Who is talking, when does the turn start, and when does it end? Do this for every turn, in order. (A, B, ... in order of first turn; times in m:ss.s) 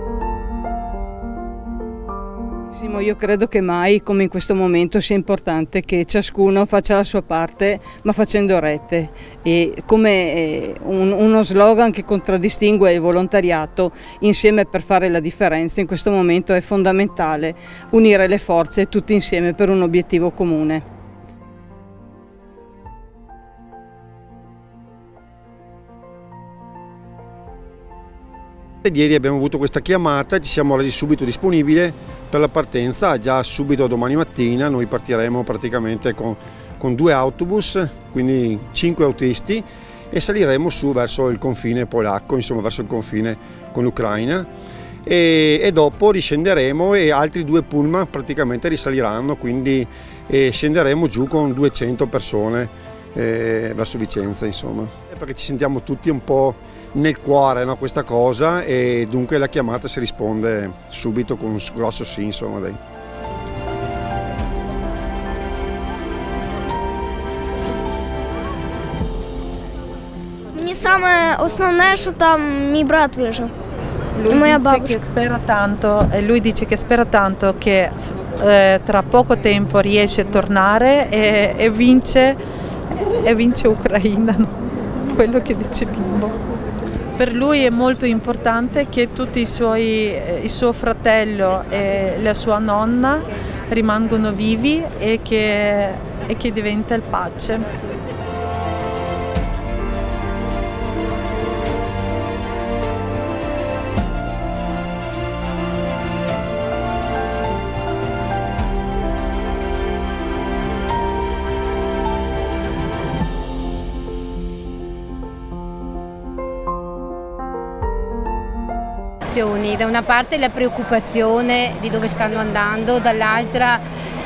0:02.7-0:20.8 A
0:28.8-0:44.5 B
0:45.0-1:02.8 B
1:10.5-1:13.5 C
1:14.2-1:22.4 D
1:14.3-1:14.9 C
1:23.0-1:24.5 D
1:25.1-1:26.4 D
1:27.2-1:37.7 D
1:59.2-2:03.8 E